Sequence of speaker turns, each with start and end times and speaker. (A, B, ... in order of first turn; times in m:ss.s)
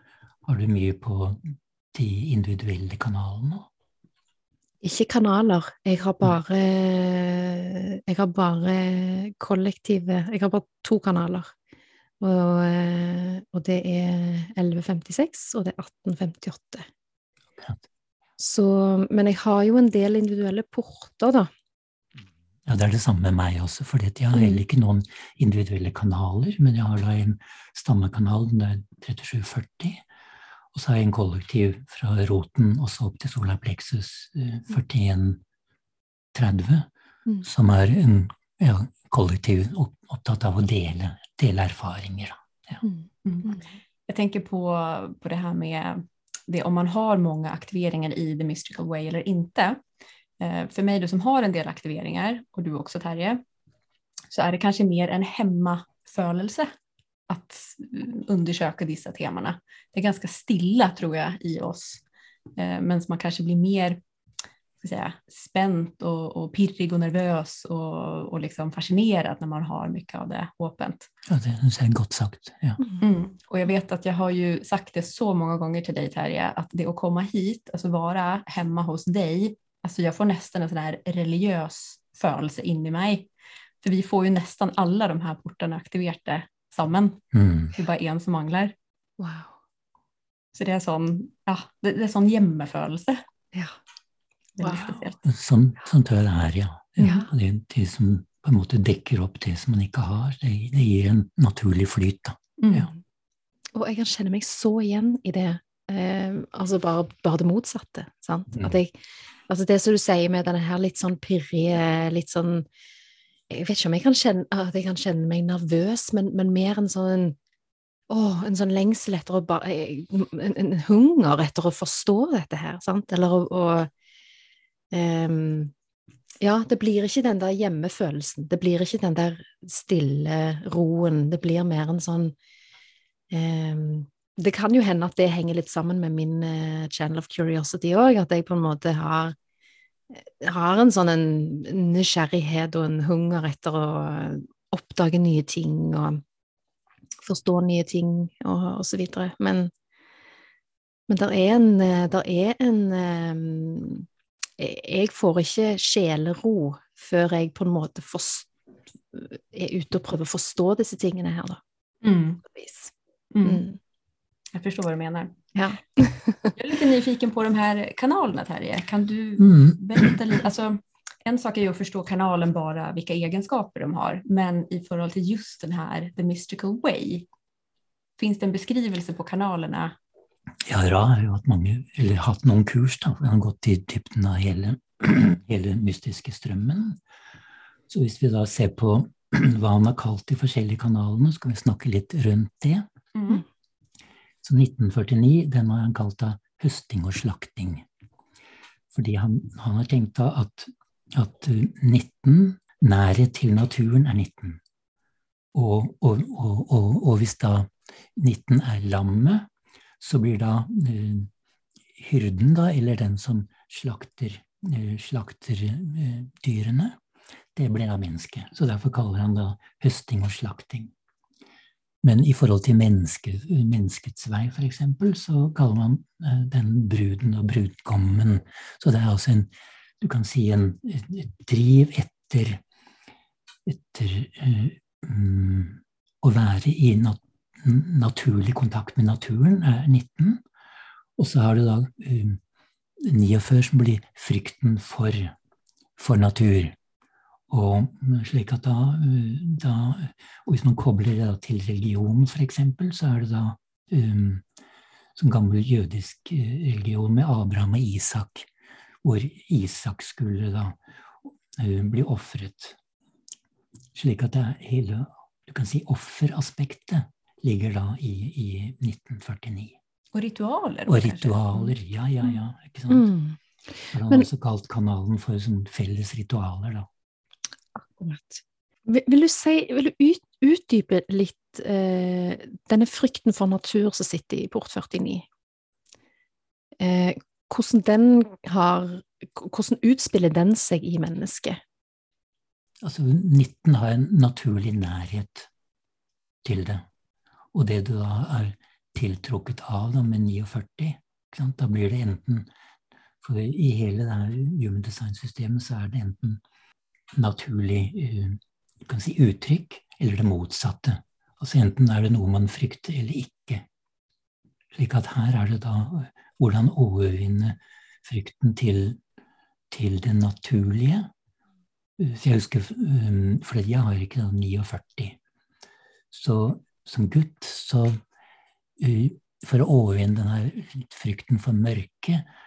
0:00.4-0:03.7 A
0:04.8-0:11.5 B
0:12.2-0:16.9 B
0:17.6-0:17.8 A
0:18.4-0:21.5 B
0:22.6-0:30.0 A
0:24.3-0:24.6 B
0:30.7-0:35.4 A
0:36.3-0:36.9 A
0:37.4-0:42.8 A
0:42.8-0:43.6 B
0:43.2-0:49.8 C
0:50.4-0:53.4 C
0:54.3-0:56.7 C
0:57.3-1:02.0 C
1:02.5-1:04.0 C
1:04.8-1:11.1 C
1:11.3-1:12.8 A
1:13.0-1:23.3 C
1:23.8-1:28.7 C
1:27.3-1:27.7 A
1:29.2-1:29.5 B
1:30.5-1:33.2 C
1:34.6-1:35.0 B
1:34.6-1:35.2 C
1:35.2-1:42.9 A
1:37.0-1:37.3 B
1:42.6-1:42.9 C
1:43.7-1:48.9 B
1:49.5-1:52.7 B
1:53.5-1:57.4 B
1:58.1-2:03.9 B
2:04.9-2:05.7 B
2:06.4-2:12.3 B
2:13.3-2:19.3 B
2:20.1-2:26.2 B
2:27.2-2:29.7 B
2:31.1-2:34.1 B
2:34.6-2:38.5 B
2:39.1-2:41.6 B
2:42.0-2:42.4 C
2:42.4-2:42.9 B
2:43.3-2:43.6 C
2:43.4-2:43.8 B
2:44.5-2:45.4 C
2:45.5-2:46.6 B
2:46.6-2:57.2 C
2:49.4-2:50.2 A
2:58.2-3:00.0 C
3:00.6-3:07.0 A
3:07.9-3:12.9 A
3:13.1-3:13.4 C
3:14.4-3:17.8 A
3:18.9-3:24.6 A
3:25.5-3:29.5 A
3:30.0-3:31.3 A
3:31.9-3:37.0 A
3:37.5-3:40.9 A
3:42.0-3:52.6 A
3:53.6-4:00.4 A
4:01.2-4:02.4 A
4:03.0-4:05.4 A
4:06.0-4:06.8 A
4:07.5-4:14.4 A
4:15.2-4:18.5 A
4:19.0-4:20.8 A
4:21.5-4:22.8 A
4:23.9-4:29.8 A
4:30.1-4:31.7 C
4:30.9-4:33.1 A
4:32.9-4:33.4 B
4:33.9-4:36.9 A
4:37.7-4:45.3 B
4:46.8-4:51.6 B
4:52.8-4:55.5 A
4:56.4-4:56.9 A
4:57.5-5:02.5 A
5:03.2-5:06.4 A
5:07.1-5:13.6 A
5:14.7-5:19.0 A
5:19.7-5:21.1 A
5:22.0-5:25.2 A
5:26.1-5:28.0 A
5:28.8-5:32.2 A